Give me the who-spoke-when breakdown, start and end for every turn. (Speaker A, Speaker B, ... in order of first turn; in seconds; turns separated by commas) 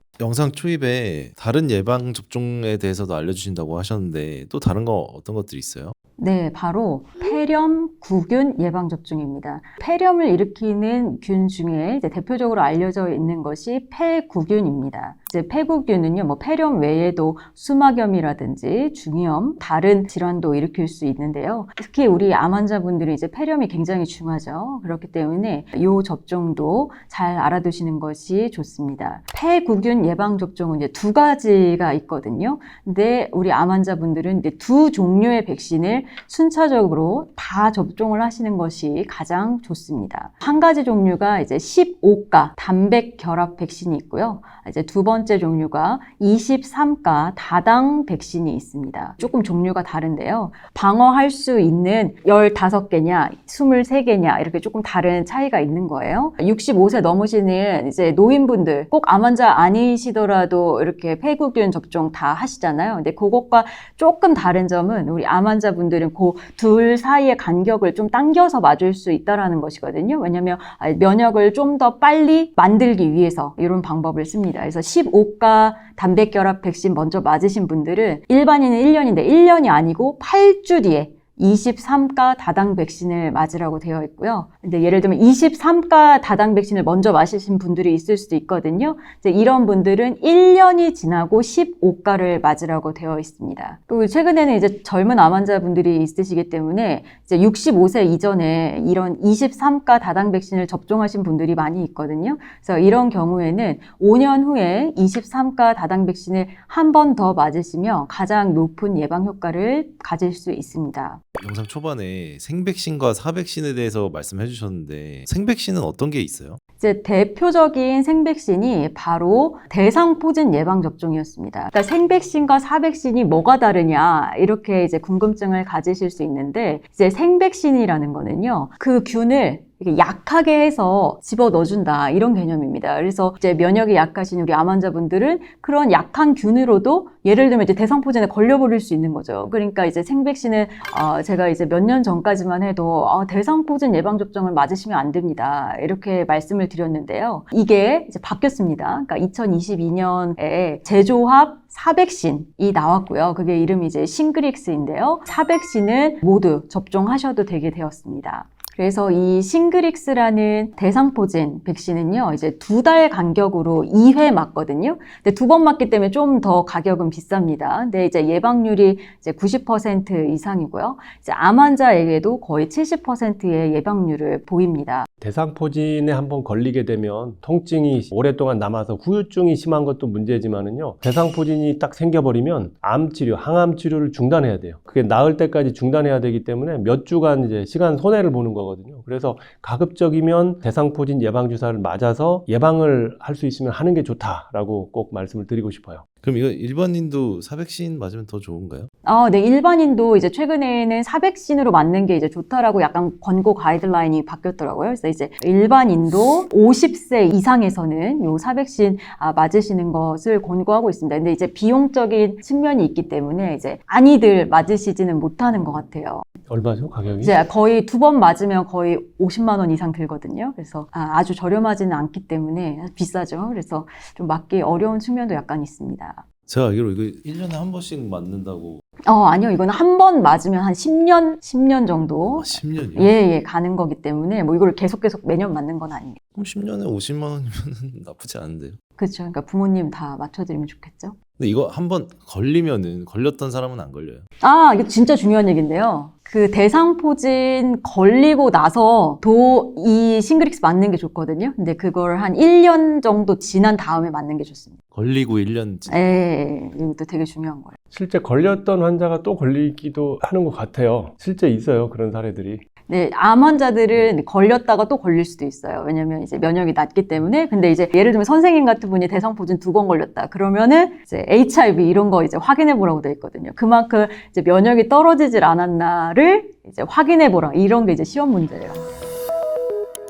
Speaker A: 0.2-5.9, Speaker B: 6.2-111.2, Speaker A: 111.4-116.6, Speaker B: 116.8-175.1, Speaker C: 175.2-196.0, Speaker A: 196.2-198.9, Speaker B: 199.0-216.2, Speaker C: 216.5-217.4, Speaker B: 217.2-226.2, Speaker A: 226.5-228.8, Speaker B: 229.1-236.2, Speaker A: 232.4-233.2, Speaker A: 236.3-238.8, Speaker B: 239.0-241.2, Speaker A: 241.4-244.2, Speaker B: 244.4-254.8, Speaker A: 254.9-256.1, Speaker B: 255.9-257.8, Speaker C: 257.9-262.6, Speaker B: 262.9-278.8